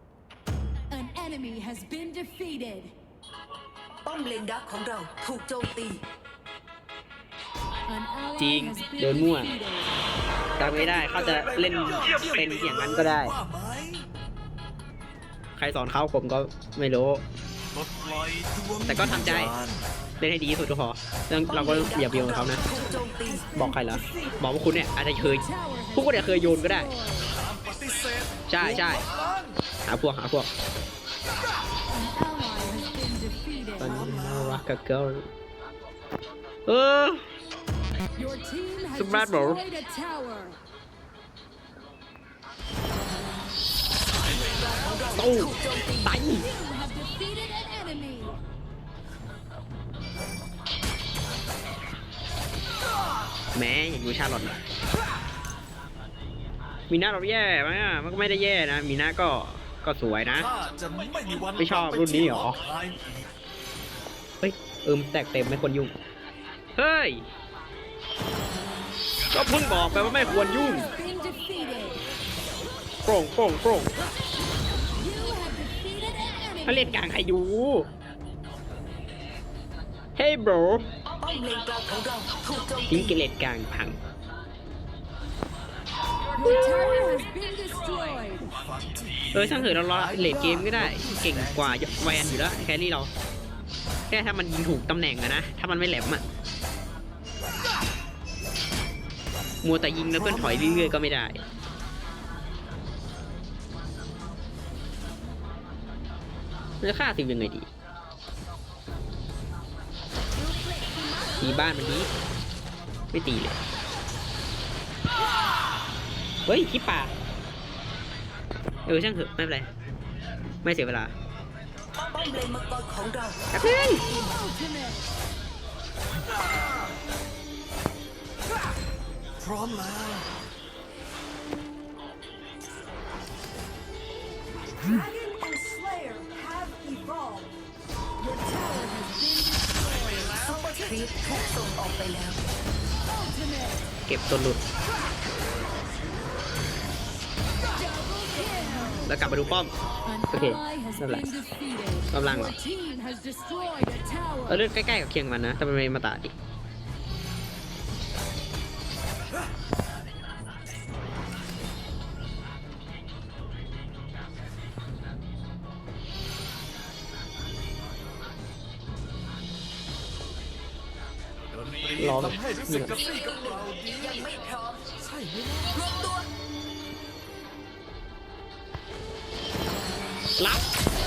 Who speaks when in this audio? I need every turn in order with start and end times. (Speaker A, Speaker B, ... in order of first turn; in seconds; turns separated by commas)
Speaker A: 0.9-2.9, Speaker B: 4.0-6.0, Speaker A: 7.9-9.9, Speaker C: 8.4-9.5, Speaker C: 10.6-13.3, Speaker D: 10.6-14.1, Speaker C: 15.6-17.2, Speaker D: 17.7-19.9, Speaker C: 18.9-19.5, Speaker C: 20.2-22.6, Speaker B: 21.5-23.5, Speaker A: 22.6-24.4, Speaker C: 23.5-26.9, Speaker A: 25.2-27.3, Speaker D: 27.2-29.6, Speaker C: 28.5-29.0, Speaker C: 29.8-30.5, Speaker A: 31.9-34.1, Speaker C: 33.8-35.3, Speaker D: 33.8-34.6, Speaker C: 36.7-37.2, Speaker A: 38.1-40.6, Speaker C: 38.9-39.6, Speaker B: 44.2-46.1, Speaker C: 45.1-46.5, Speaker A: 46.3-48.4, Speaker C: 53.5-54.6, Speaker C: 56.9-60.5, Speaker D: 60.2-63.3, Speaker C: 61.6-62.6, Speaker C: 64.4-65.9, Speaker C: 66.8-67.2, Speaker C: 69.3-70.9, Speaker A: 69.7-72.0, Speaker C: 73.0-74.0, Speaker A: 74.9-77.0, Speaker C: 76.7-77.9, Speaker C: 80.2-80.9, Speaker B: 81.0-83.2, Speaker C: 82.9-84.0, Speaker A: 86.4-88.5, Speaker D: 88.4-92.6, Speaker C: 89.3-93.1, Speaker C: 94.1-96.2, Speaker C: 99.6-101.4, Speaker D: 100.1-101.0, Speaker C: 106.8-107.7, Speaker A: 110.4-111.3, Speaker C: 111.4-112.1, Speaker C: 113.1-113.6, Speaker C: 116.5-117.1, Speaker C: 118.8-119.7, Speaker C: 120.6-121.1, Speaker B: 122.0-124.3, Speaker C: 123.5-124.0, Speaker A: 123.9-125.1, Speaker D: 126.3-126.9, Speaker D: 129.4-130.4, Speaker A: 134.6-137.6, Speaker A: 138.2-140.4, Speaker B: 140.3-142.4, Speaker A: 143.0-143.9, Speaker C: 144.1-144.6, Speaker A: 147.6-149.4, Speaker C: 149.1-149.7, Speaker A: 150.0-154.6, Speaker C: 150.3-151.2, Speaker C: 152.1-152.5, Speaker C: 154.5-156.3, Speaker D: 171.5-174.3, Speaker C: 172.0-173.0, Speaker B: 172.9-174.9, Speaker D: 174.9-175.8, Speaker B: 175.7-176.3, Speaker C: 180.4-180.6